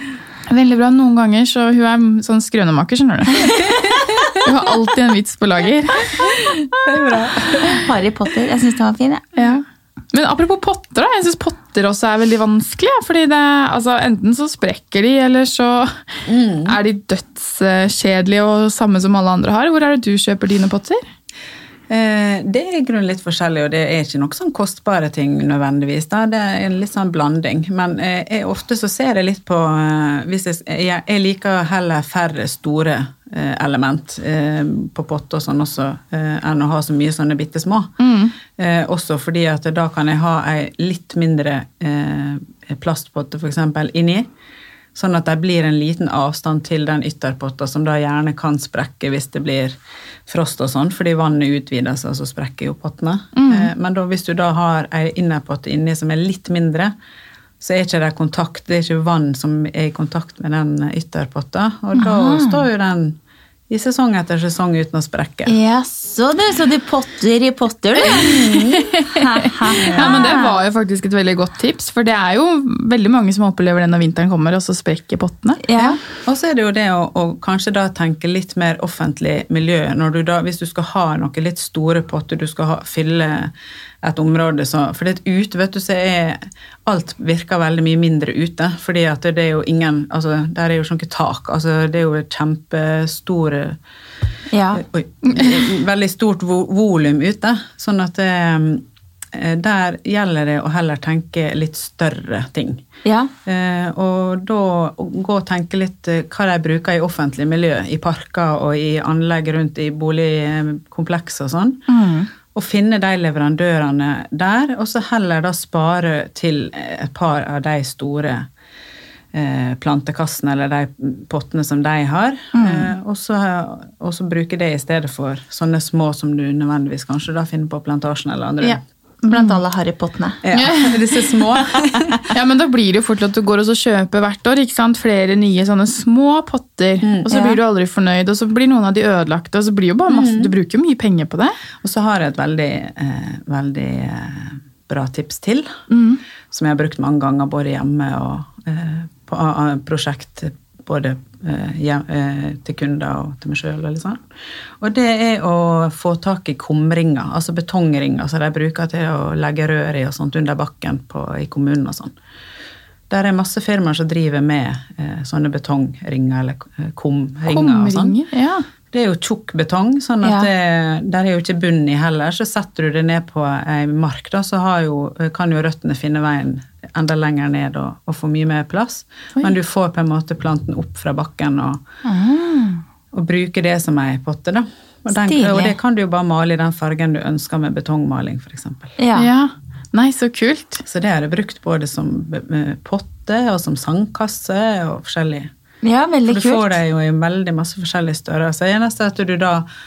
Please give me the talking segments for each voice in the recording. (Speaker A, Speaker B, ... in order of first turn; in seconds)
Speaker A: 0.5-3.4, 4.4-6.7, 9.3-21.0, 38.0-38.3, 53.4-53.7, 68.1-76.0, 95.2-95.6, 129.3-129.6, 130.5-131.0, 132.3-141.6, 145.9-146.2, 167.5-168.6, 189.1-190.8
Speaker B: 3.3-4.2, 7.7-9.2, 61.9-62.6, 65.5-70.6, 75.6-76.0, 94.5-94.8, 103.0-103.3, 111.9-112.3, 122.5-122.9, 128.6-130.4, 137.3-137.6, 170.2-170.5, 182.0-182.8, 185.1-185.7, 189.0-189.3, 195.8-196.8
Speaker C: 3.6-4.5, 6.2-7.8, 16.3-16.8, 21.9-37.9, 38.5-44.3, 44.9-56.9, 57.6-63.2, 63.7-65.5, 68.2-68.8, 69.8-70.3, 76.2-93.8, 94.7-102.8, 103.5-111.8, 112.5-118.5, 119.3-128.8, 130.4-132.2, 137.0-137.3, 140.1-140.5, 141.8-145.8, 146.5-154.2, 154.8-162.1, 163.1-168.2, 168.9-181.8, 183.1-188.9, 190.8-195.5, 196.3-199.7